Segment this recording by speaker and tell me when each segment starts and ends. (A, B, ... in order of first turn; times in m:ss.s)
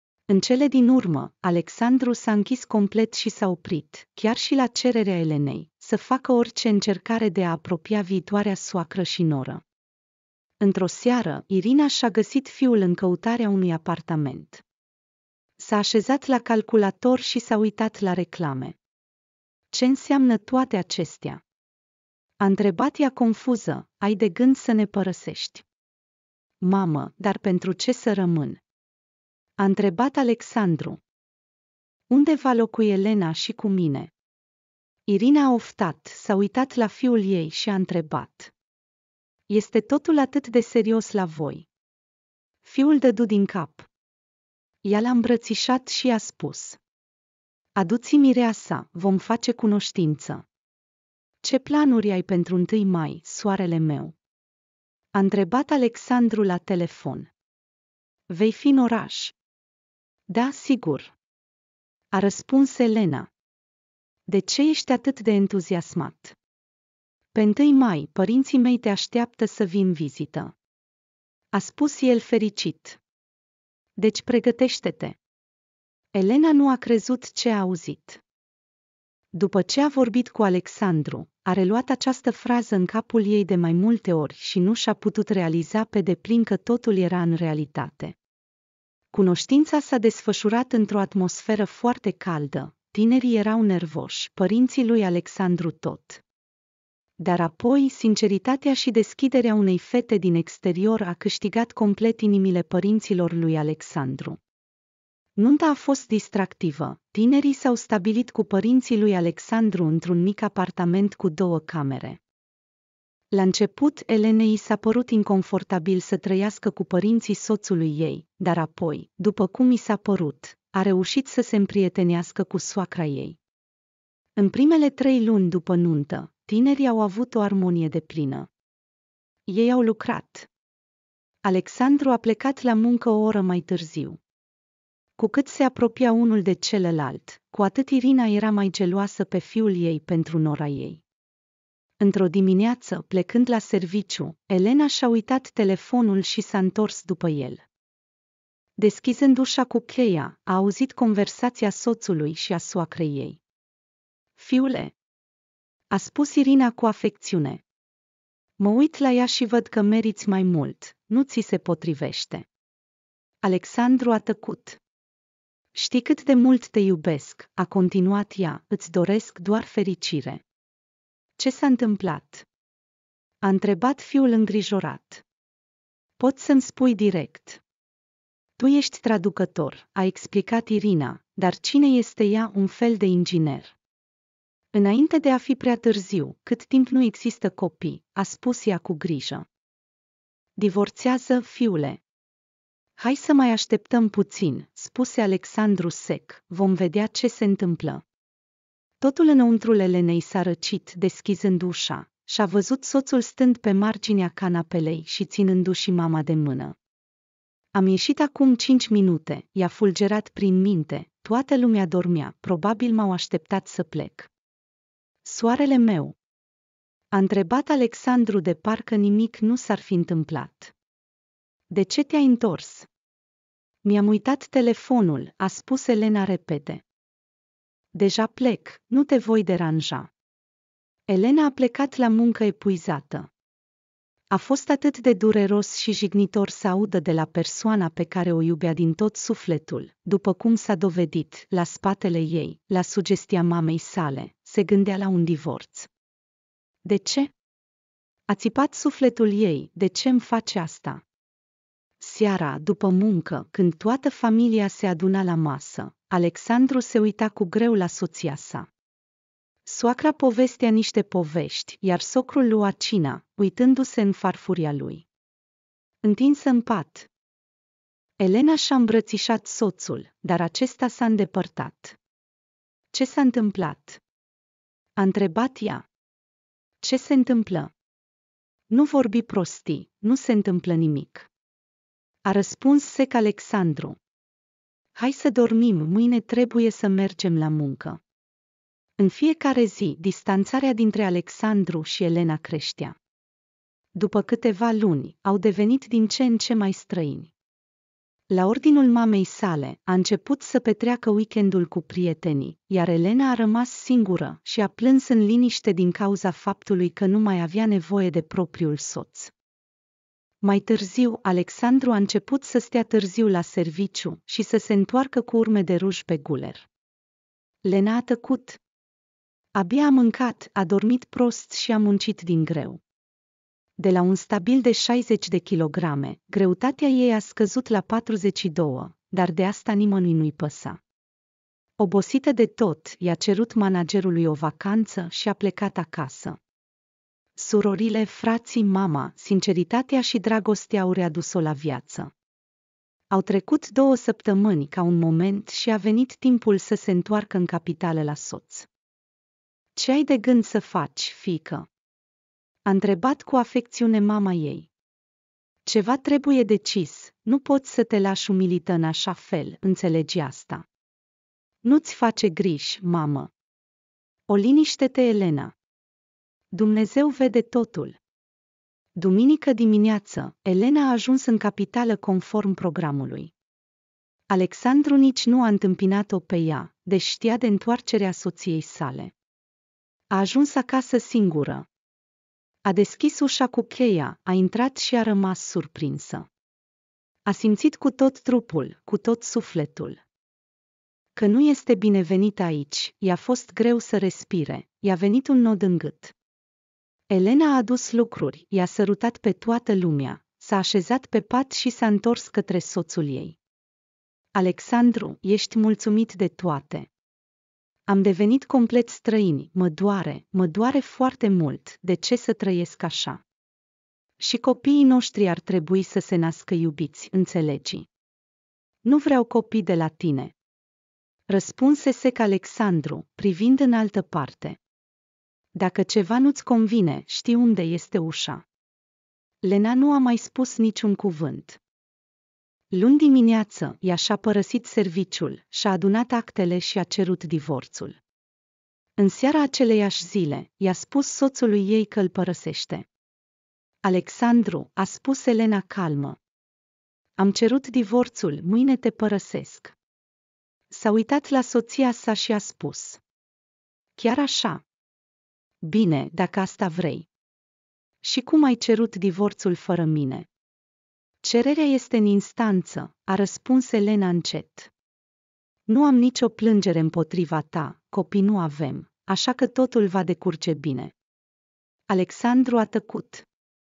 0:00.3-0:09.6 A
0:10.6-0:14.6 A
0:15.6-0:18.8 A
0:19.7-0:21.4 A
0:22.4-0:25.6 A
0:26.6-0:28.6 A
0:29.6-0:31.0 A
0:32.1-0:34.1 A
0:35.1-0:38.5 A
0:39.5-0:41.7 A
0:42.6-0:43.9 A
0:44.8-0:46.8 A
0:47.8-0:50.4 A
0:51.4-0:54.2 A
0:55.1-0:57.3 A
0:58.3-0:59.4 A
1:00.3-1:01.2 A
1:02.1-1:03.3 A
1:04.3-1:06.4 A
1:07.3-1:10.6 A
1:11.5-1:13.0 A
1:14.0-1:15.2 A
1:16.1-1:18.2 A
1:19.3-1:28.2 A
1:29.1-1:36.2 A
1:37.2-1:44.4 A
1:45.4-1:52.2 A
1:53.3-2:03.4 A
2:04.4-2:08.5 A
2:09.5-2:10.5 A
2:11.4-2:14.2 A
2:15.2-2:21.0 A
2:22.0-2:27.6 A
2:28.8-2:33.4 A
2:34.4-2:35.0 A
2:35.9-2:37.6 A
2:38.6-2:42.5 A
2:43.4-2:44.8 A
2:45.7-2:50.4 A
2:51.4-2:52.5 A
2:53.4-2:55.2 A
2:56.2-2:57.6 A
2:58.6-3:03.8 A
3:04.7-3:09.5 A
3:10.6-3:12.0 A
3:13.0-3:18.0 A
3:19.0-3:26.8 A
3:27.7-3:34.3 A
3:35.2-3:36.2 A
3:37.1-3:40.7 A
3:41.7-3:42.9 A
3:43.8-3:46.8 A
3:47.9-3:50.1 A
3:51.1-3:53.3 A
3:54.3-4:05.9 A
4:06.8-4:07.3 A
4:08.3-4:11.0 A
4:12.0-4:18.7 A
4:19.6-4:25.1 A
4:26.0-4:27.1 A
4:28.2-4:32.0 A
4:32.9-4:34.0 A
4:35.0-4:35.9 A
4:36.8-4:37.7 A
4:38.7-4:41.3 A
4:42.2-4:44.0 A
4:45.0-4:48.0 A
4:49.0-4:53.0 A
4:54.0-4:57.3 A
4:58.3-5:09.3 A
5:10.4-5:16.7 A
5:17.6-5:18.6 A
5:19.6-5:22.8 A
5:23.8-5:30.8 A
5:31.8-5:36.4 A
5:37.4-5:42.1 A
5:43.1-5:48.7 A
5:49.8-5:51.7 A
5:52.7-5:54.7 A
5:55.6-6:00.6 A
6:01.6-6:03.3 A
6:04.3-6:05.5 A
6:06.5-6:08.0 A
6:09.0-6:13.3 A
6:14.3-6:19.1 A
6:20.1-6:21.7 A
6:22.6-6:26.3 A
6:27.3-6:30.0 A
6:31.2-6:36.1 A
6:37.1-6:43.4 A
6:44.4-6:46.9 A
6:47.9-6:53.2 A
6:54.2-6:57.9 A
6:58.8-7:00.4 A
7:01.3-7:04.6 A
7:05.6-7:08.4 A
7:09.4-7:11.6 A
7:12.7-7:18.0 A
7:19.0-7:22.9 A
7:23.8-7:26.2 A
7:27.2-7:29.8 A
7:30.7-7:33.0 A
7:34.0-7:34.6 A
7:35.6-7:37.1 A
7:38.0-7:40.3 A
7:41.2-7:44.7 A
7:45.7-7:50.9 A
7:51.9-7:53.3 A